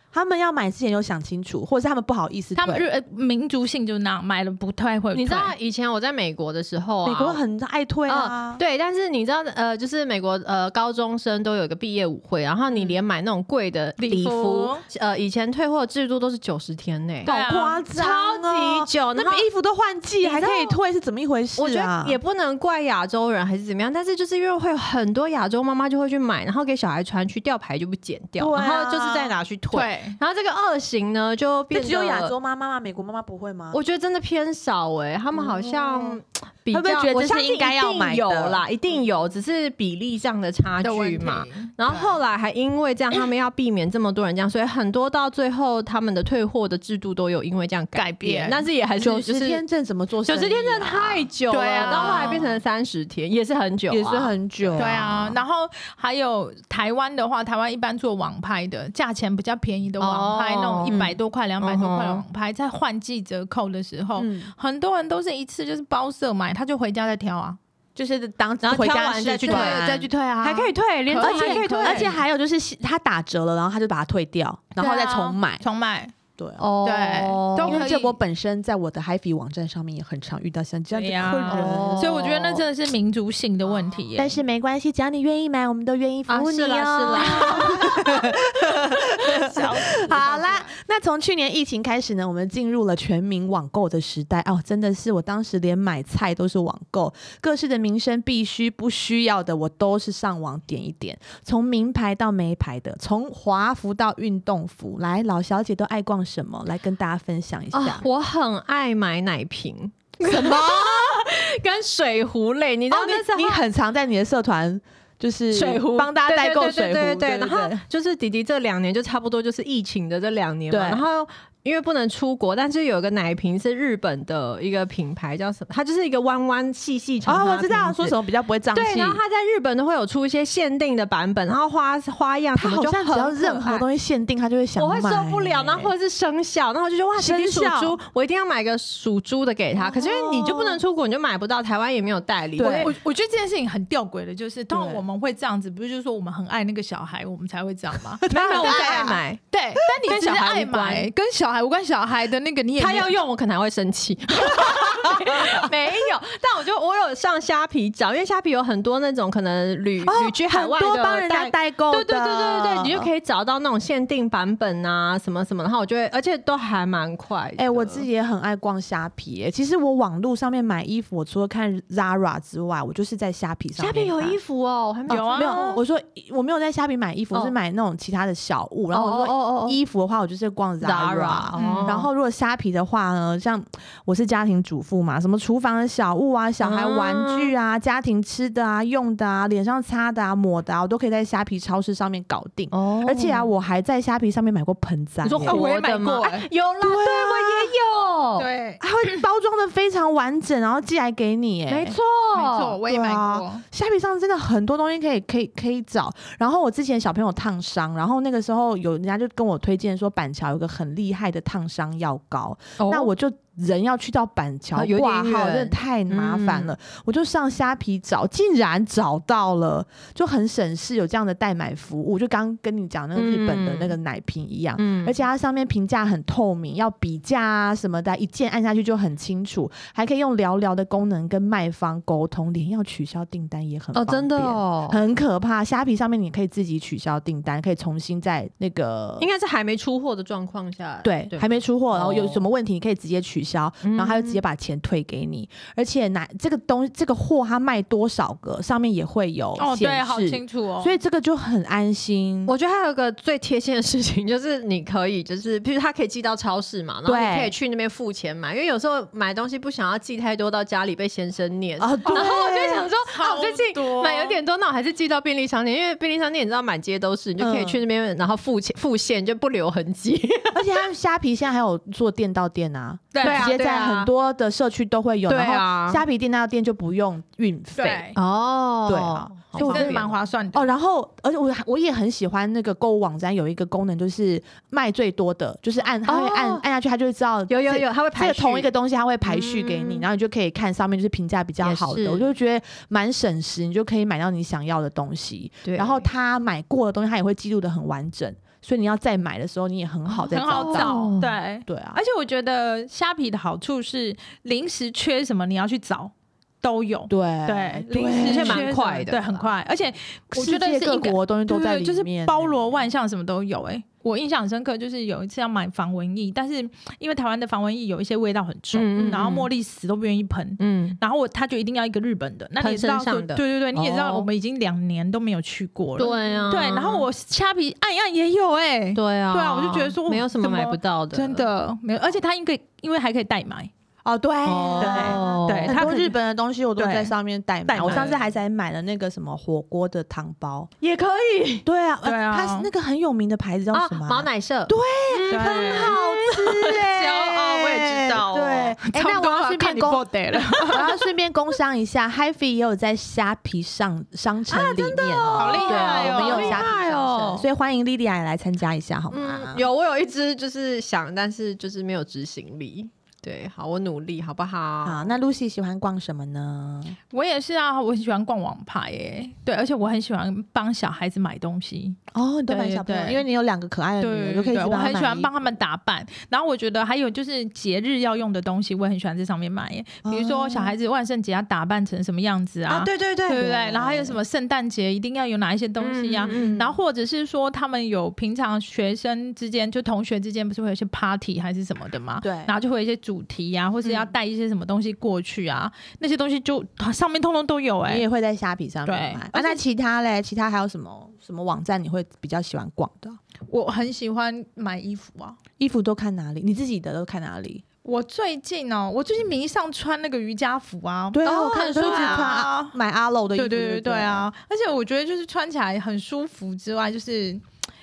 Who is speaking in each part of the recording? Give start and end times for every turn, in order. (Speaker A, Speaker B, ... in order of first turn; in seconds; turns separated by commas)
Speaker A: 0.1-2.9, Speaker B: 2.6-5.5, Speaker C: 5.1-7.4, Speaker A: 7.0-8.6, Speaker C: 8.1-17.4, Speaker B: 14.0-14.8, Speaker B: 17.2-17.8, Speaker A: 17.2-22.2, Speaker C: 17.9-19.5, Speaker C: 20.2-20.8, Speaker C: 21.6-32.3, Speaker A: 28.4-29.4, Speaker B: 29.7-30.2, Speaker A: 31.7-33.8, Speaker C: 33.7-49.6, Speaker A: 35.3-38.6, Speaker B: 40.8-42.1, Speaker B: 48.0-48.6, Speaker A: 49.0-52.5, Speaker C: 50.3-55.0, Speaker B: 51.5-52.6, Speaker A: 53.9-55.4, Speaker B: 54.8-67.6, Speaker C: 60.0-62.2, Speaker A: 60.9-61.1, Speaker A: 64.2-64.5, Speaker A: 68.0-75.6, Speaker C: 68.6-72.2, Speaker B: 69.5-70.4, Speaker B: 71.1-72.1, Speaker B: 74.8-76.1, Speaker A: 76.4-76.7, Speaker C: 76.6-77.9, Speaker B: 76.8-78.2, Speaker A: 77.6-82.3, Speaker B: 80.9-84.4, Speaker C: 81.5-82.6, Speaker A: 84.2-108.0, Speaker C: 86.3-88.3, Speaker B: 87.2-87.8, Speaker B: 89.3-90.7, Speaker C: 107.7-113.6, Speaker A: 110.2-111.2, Speaker A: 112.9-117.8, Speaker C: 115.5-128.2, Speaker A: 120.7-121.0, Speaker A: 127.2-129.2, Speaker C: 128.7-133.9, Speaker A: 132.6-135.9, Speaker C: 134.8-142.9, Speaker A: 137.2-138.0, Speaker A: 139.8-140.8, Speaker A: 142.6-142.9, Speaker B: 142.7-153.2, Speaker A: 144.7-145.0, Speaker A: 148.2-149.2, Speaker C: 148.3-151.1, Speaker C: 152.8-168.1, Speaker A: 155.1-155.7, Speaker A: 160.0-163.1, Speaker A: 167.6-174.4, Speaker C: 173.8-175.8, Speaker B: 175.1-175.8, Speaker A: 175.1-195.6, Speaker C: 178.9-179.8, Speaker C: 180.8-182.1, Speaker B: 181.6-182.0, Speaker C: 186.6-187.5, Speaker C: 192.7-193.5, Speaker C: 195.2-198.5, Speaker B: 195.4-196.5, Speaker A: 196.8-197.8, Speaker B: 198.4-199.2, Speaker A: 198.8-202.0, Speaker C: 201.7-202.8, Speaker B: 202.3-203.6, Speaker A: 202.8-239.3, Speaker C: 212.8-213.1, Speaker C: 214.8-216.7, Speaker C: 223.2-224.0, Speaker C: 224.8-225.2, Speaker C: 233.9-235.0, Speaker C: 239.2-242.4, Speaker A: 241.0-252.5, Speaker C: 243.8-244.4, Speaker B: 249.6-251.0, Speaker C: 252.5-270.9, Speaker A: 257.1-257.6, Speaker A: 261.8-262.9, Speaker B: 262.1-262.4, Speaker B: 263.1-264.4, Speaker A: 267.4-267.8, Speaker A: 270.5-278.1, Speaker B: 273.1-273.6, Speaker C: 273.2-274.1, Speaker C: 275.3-276.0, Speaker B: 277.8-278.2, Speaker C: 278.2-280.1, Speaker A: 278.9-301.1, Speaker B: 279.6-280.7, Speaker C: 286.1-286.6, Speaker C: 287.5-288.7, Speaker C: 289.2-290.1, Speaker C: 291.6-292.3, Speaker C: 295.6-296.1, Speaker B: 300.3-333.7, Speaker C: 300.4-301.3, Speaker A: 301.7-302.0, Speaker A: 307.1-308.7, Speaker C: 308.2-309.5, Speaker A: 310.3-312.6, Speaker C: 318.7-319.5, Speaker C: 320.6-321.0, Speaker C: 322.6-324.3, Speaker C: 326.0-327.1, Speaker C: 328.9-331.5, Speaker A: 334.0-340.7, Speaker C: 334.4-335.9, Speaker B: 334.8-336.2, Speaker B: 336.8-337.1, Speaker B: 337.7-338.2, Speaker C: 337.8-338.2, Speaker C: 340.8-341.6, Speaker A: 341.6-350.1, Speaker B: 342.0-342.7, Speaker C: 343.7-348.8, Speaker B: 345.3-345.9, Speaker B: 348.9-350.8, Speaker C: 350.5-351.0, Speaker A: 350.7-359.7, Speaker C: 354.5-357.5, Speaker B: 355.4-356.7, Speaker C: 359.1-365.1, Speaker A: 364.8-367.0, Speaker B: 367.1-373.2, Speaker A: 372.1-375.3, Speaker B: 374.0-398.0, Speaker A: 380.1-380.8, Speaker C: 382.7-383.5, Speaker A: 383.4-384.2, Speaker C: 385.8-386.6, Speaker A: 386.3-386.8, Speaker A: 392.2-392.5, Speaker A: 397.9-403.2, Speaker B: 398.9-399.6, Speaker B: 403.5-405.4, Speaker A: 405.6-407.6, Speaker B: 407.9-412.8, Speaker A: 411.1-414.3, Speaker C: 411.3-412.4, Speaker B: 413.4-417.4